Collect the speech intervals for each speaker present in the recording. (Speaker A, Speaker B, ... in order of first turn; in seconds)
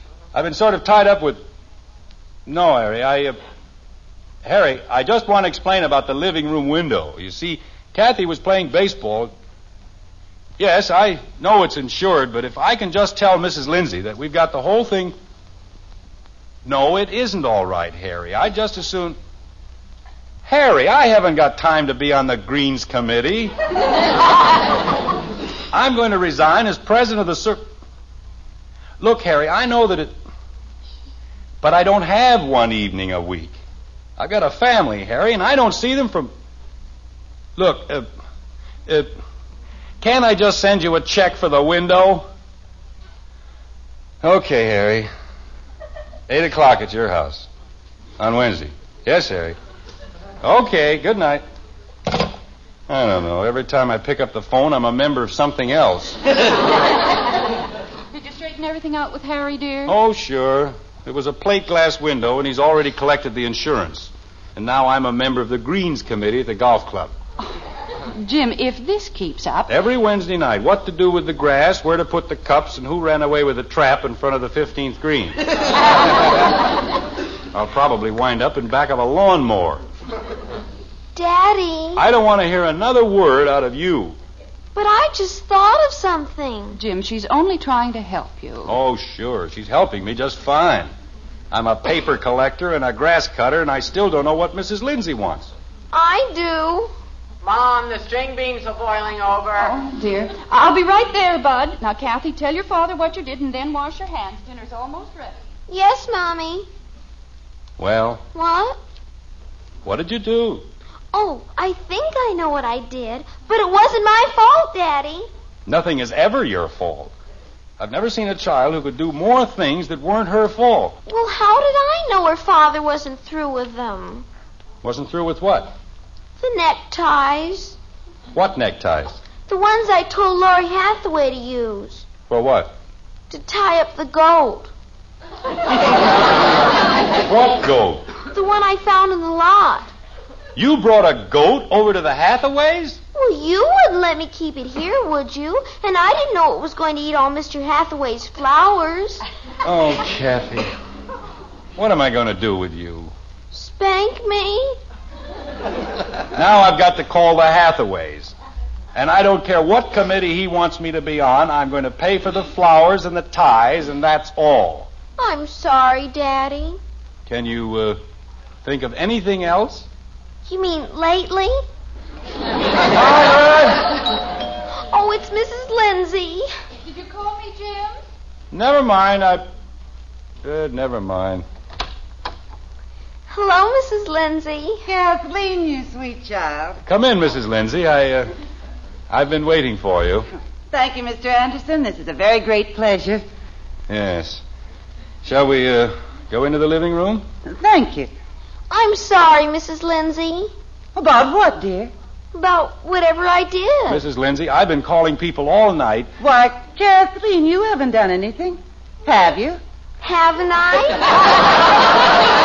Speaker A: 0.3-1.4, 2.5-3.4, 4.4-9.3, 10.6-15.1, 16.6-19.2, 20.4-23.5, 25.7-27.7, 29.0-30.1, 31.6-33.5, 34.2-36.3, 37.6-38.1, 38.9-39.2, 40.0-42.3, 44.2-45.1, 46.3-47.5, 48.2-49.6, 50.4-51.4, 52.9-56.2, 59.9-67.1, 69.7-75.4, 77.5-79.8, 81.9-84.2, 88.6-90.9, 91.5-95.5, 107.8-108.2, 109.8-110.6, 115.7-117.1, 117.8-121.0, 124.8-125.7, 128.3-129.2, 132.3-132.8, 137.2-138.1, 140.5-143.0, 149.6-150.7, 151.8-153.1, 156.3-158.3, 158.9-164.9, 167.2-168.0, 168.6-169.9, 172.9-173.9, 178.5-179.5, 180.4-181.4, 186.8-188.3, 189.1-190.3, 193.9-194.4, 195.2-197.2, 203.9-206.1
Speaker B: 58.1-60.0, 68.1-69.7, 86.7-88.7, 99.6-105.4, 176.8-178.0
Speaker C: 81.1-82.0, 84.7-86.8, 95.9-96.9, 105.7-106.7, 108.3-108.8, 111.1-115.3, 121.1-124.2, 126.4-127.8, 129.5-132.0, 133.3-134.7, 138.3-139.9, 143.1-149.2, 153.5-154.8, 165.2-166.8, 170.4-171.6, 174.7-176.5, 183.3-184.8, 198.7-200.5, 202.3-204.0, 210.0-211.1
Speaker D: 97.4-99.7
Speaker E: 184.8-186.8, 190.7-193.2, 197.4-198.1, 200.9-201.9, 206.2-209.6